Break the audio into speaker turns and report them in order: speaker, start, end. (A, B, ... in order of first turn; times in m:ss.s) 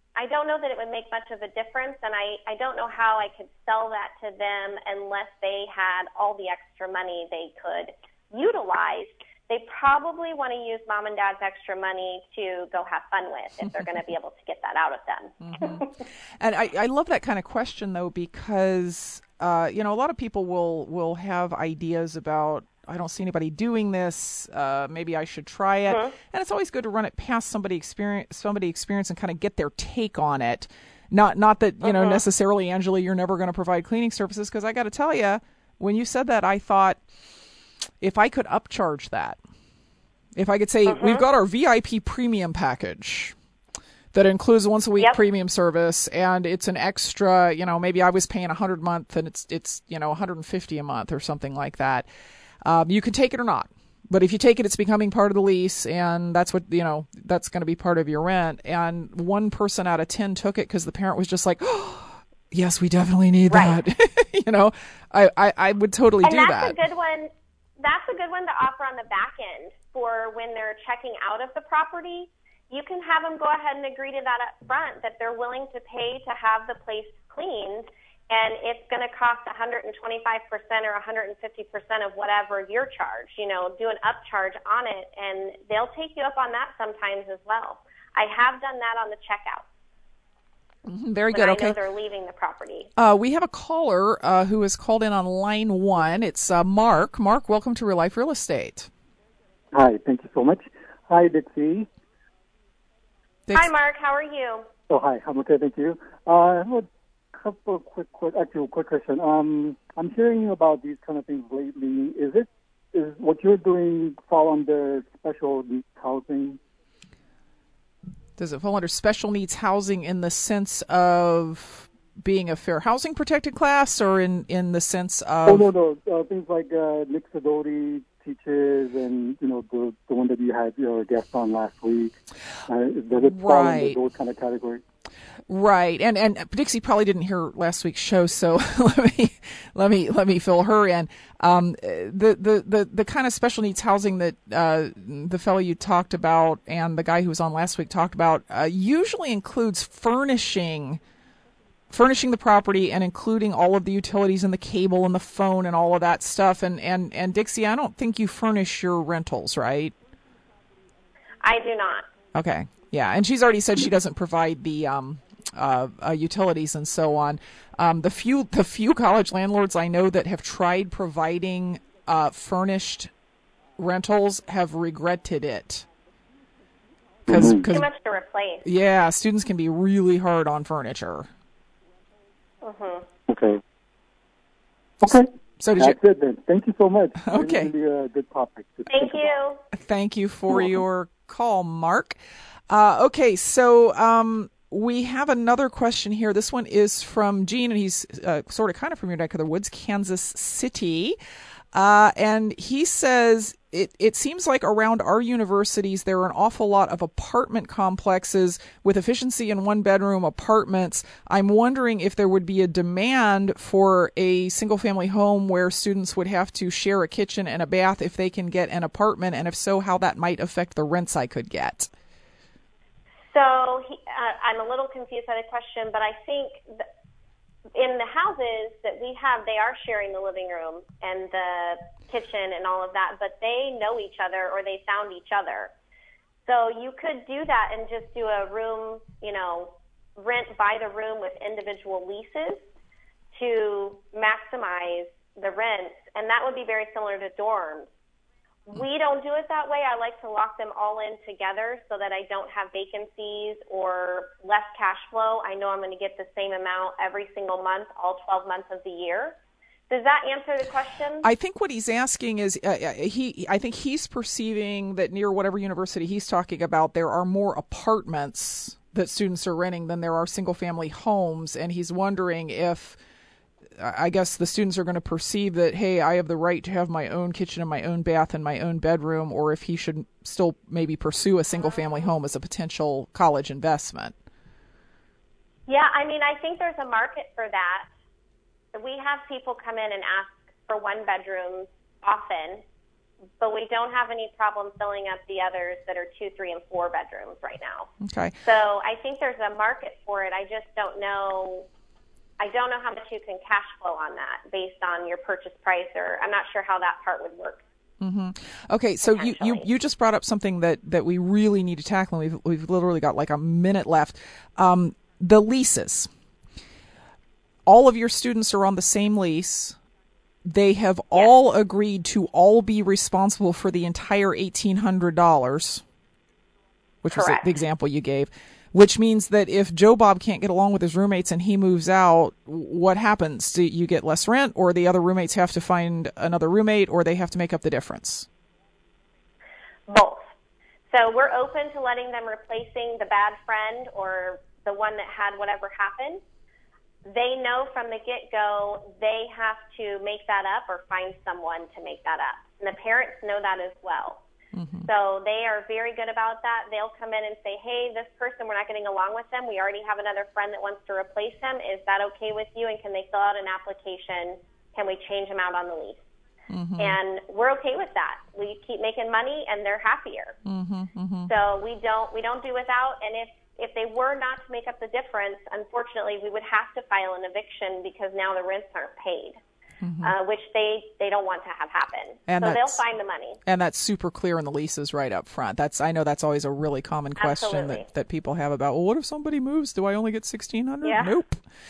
0:00.2-0:15.9 A
0:15.4-0:15.9 B
0:16.4-0:37.0 B
0:31.8-0:32.2 A
0:38.0-0:39.4 B
0:40.4-0:43.4 B
0:40.9-0:41.2 A
0:44.1-0:52.1 B
0:52.6-1:06.8 B
1:03.5-1:03.8 A
1:06.2-1:29.6 A
1:30.9-1:31.8 B
1:31.3-1:32.9 A
1:33.0-1:38.9 B
1:39.7-1:41.9 C
1:43.5-1:44.7 A
1:44.9-1:56.6 C
1:58.4-2:05.7 B
2:05.5-2:12.2 C
2:12.7-2:14.8 C
2:13.2-2:14.0 B
2:15.5-2:31.0 B
2:31.9-2:39.9 B
2:41.4-2:42.1 A
2:42.4-2:53.1 B
2:53.8-2:55.9 B
2:57.3-2:57.7 C
2:57.3-2:57.9 B
2:57.7-2:58.6 A
2:58.6-3:01.3 B
3:02.6-3:03.1 A
3:03.3-3:03.6 C
3:05.0-3:09.3 C
3:05.1-3:06.0 B
3:07.2-3:07.7 B
3:08.9-3:09.6 A
3:09.7-3:12.2 B
3:10.5-3:10.8 C
3:12.7-3:21.2 B
3:21.7-3:41.9 B
3:43.3-3:46.8 A
3:47.7-3:55.7 A
3:56.5-4:02.6 A
4:03.4-4:07.9 A
4:08.7-4:19.4 A
4:19.9-4:21.3 A
4:21.2-4:33.0 B
4:33.8-4:44.2 B
4:45.7-4:47.9 A
4:48.7-4:52.6 A
4:53.4-4:57.9 A
4:58.0-4:58.4 B
4:58.4-5:01.7 A
5:02.4-5:07.6 A
5:08.0-5:16.1 B
5:09.0-5:09.7 A
5:17.7-5:19.8 B
5:20.4-5:25.8 B
5:27.0-5:38.3 B
5:27.1-5:27.5 A
5:39.9-5:40.3 A
5:40.9-5:46.2 A
5:47.0-5:54.2 A
5:54.5-5:54.9 B
5:54.8-6:06.0 A
6:06.5-6:07.0 B
6:06.8-6:10.4 A
6:10.4-6:11.3 B
6:11.3-6:19.4 A
6:19.8-6:20.1 B
6:20.0-6:23.4 A
6:22.3-6:22.8 B
6:23.5-6:31.4 B
6:27.2-6:27.8 A
6:30.8-6:31.2 A